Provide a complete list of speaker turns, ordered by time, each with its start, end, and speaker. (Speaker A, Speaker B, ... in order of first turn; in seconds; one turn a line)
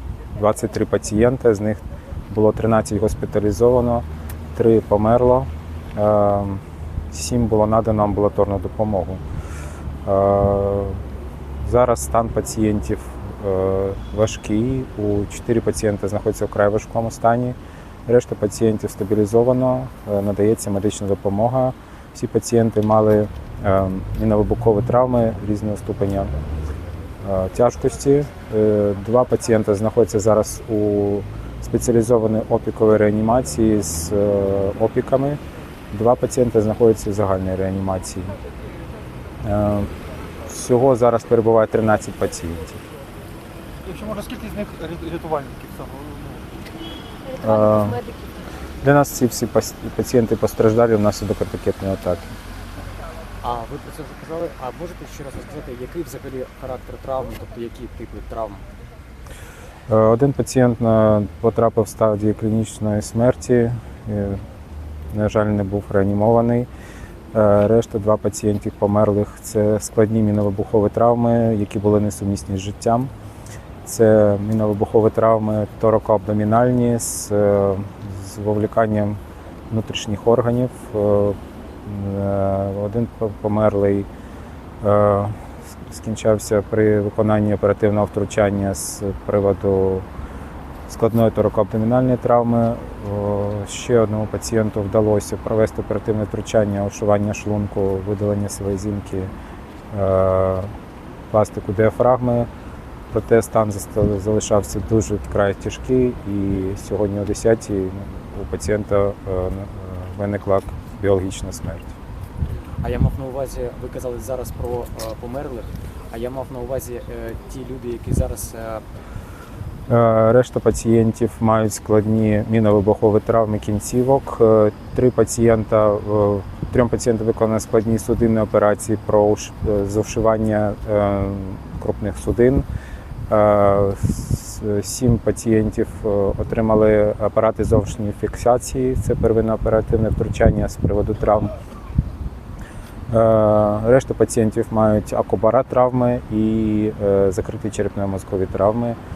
Speaker A: 0.3-9.2
Speaker A: 10.1-11.0
Speaker A: 11.6-26.3
Speaker A: 27.2-35.4
Speaker A: 35.9-38.4
Speaker A: 39.4-39.9
Speaker A: 40.5-42.8
Speaker B: 43.9-46.4
Speaker A: 47.4-48.1
Speaker A: 48.8-52.3
Speaker C: 53.4-58.6
Speaker A: 59.9-64.4
Speaker A: 65.1-66.7
Speaker A: 67.3-73.1
Speaker A: 73.8-84.1
Speaker A: 84.8-90.1
Speaker A: 90.9-99.3
Speaker A: 99.9-100.7
Speaker A: 101.3-102.5
Speaker A: 103.1-112.0
Speaker C: 112.8-118.8
Speaker A: 119.9-132.7
Speaker A: 133.3-141.6
Speaker A: 143.1-149.0